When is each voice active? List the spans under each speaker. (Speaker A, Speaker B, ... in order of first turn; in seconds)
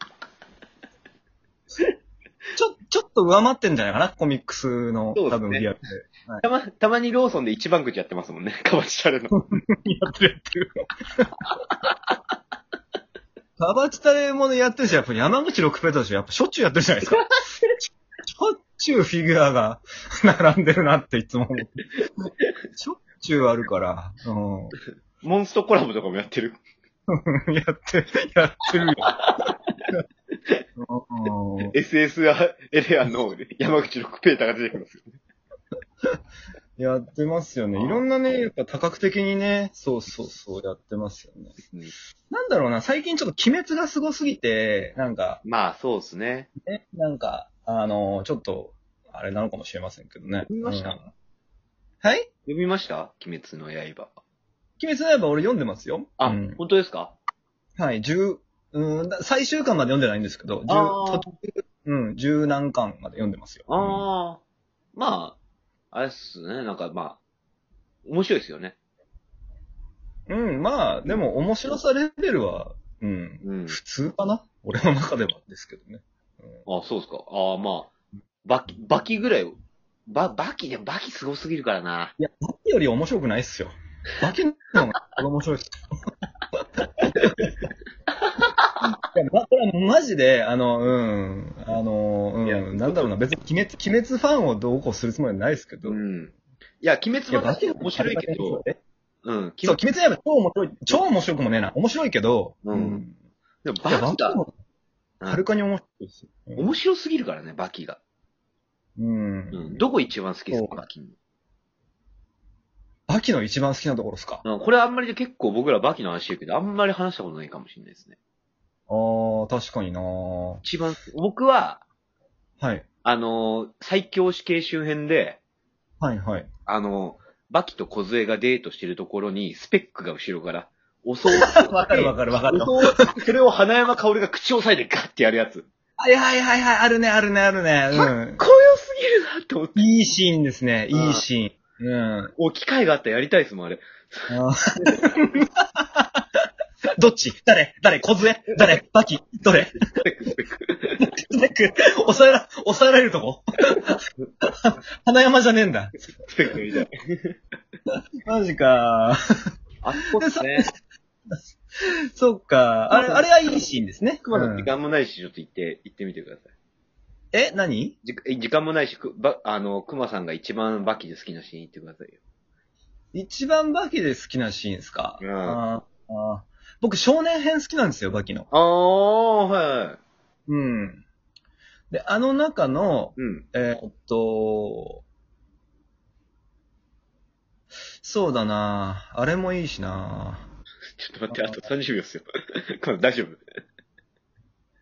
Speaker A: 2.5-6.4, 9.3-11.3, 13.6-21.8, 22.7-24.7, 27.1-29.2, 30.8-31.7, 36.8-41.5, 42.3-45.4, 46.6-51.1, 52.0-52.3, 54.8-56.6, 57.8-64.1, 70.3-76.6, 82.2-85.7, 86.5-87.5, 88.8-96.0, 97.3-98.8, 99.6-103.1, 103.8-104.5, 105.2-106.7, 109.0-109.8, 110.5-110.8, 113.1-114.4, 118.9-120.6, 122.6-122.8, 126.0-126.5, 131.3-133.2, 136.0-138.4, 139.8-142.3, 144.3-146.2, 147.0-149.8, 151.0-156.1, 158.2-159.2, 160.1-160.7, 161.3-164.7, 167.3-167.9, 173.1-178.5, 180.5-181.0, 181.9-185.0, 188.0-190.5, 191.3-191.7
Speaker B: 5.1-5.7, 6.4-9.3, 25.2-26.6, 31.7-35.1, 37.8-38.0, 45.4-46.5, 50.5-51.0, 52.5-54.2, 56.2-57.1, 60.7-61.2, 63.7-64.4, 64.9-65.4, 65.9-67.2, 68.0-68.8, 73.4-73.8, 76.7-77.9, 78.4-79.5, 80.1-82.1, 92.4-93.1, 95.8-98.6, 99.2-99.8, 102.7-103.0, 103.6-104.4, 106.6-108.0, 109.5-111.2, 114.4-118.1, 120.6-121.8, 123.0-125.4, 126.7-135.7, 137.9-139.9, 140.9-141.2, 142.4-144.3, 150.0-151.0, 156.2-157.3, 159.8-160.7, 162.9-163.2, 164.2-166.5, 168.0-172.2, 175.2-175.6, 178.5-180.0, 183.2-183.4, 190.9-193.4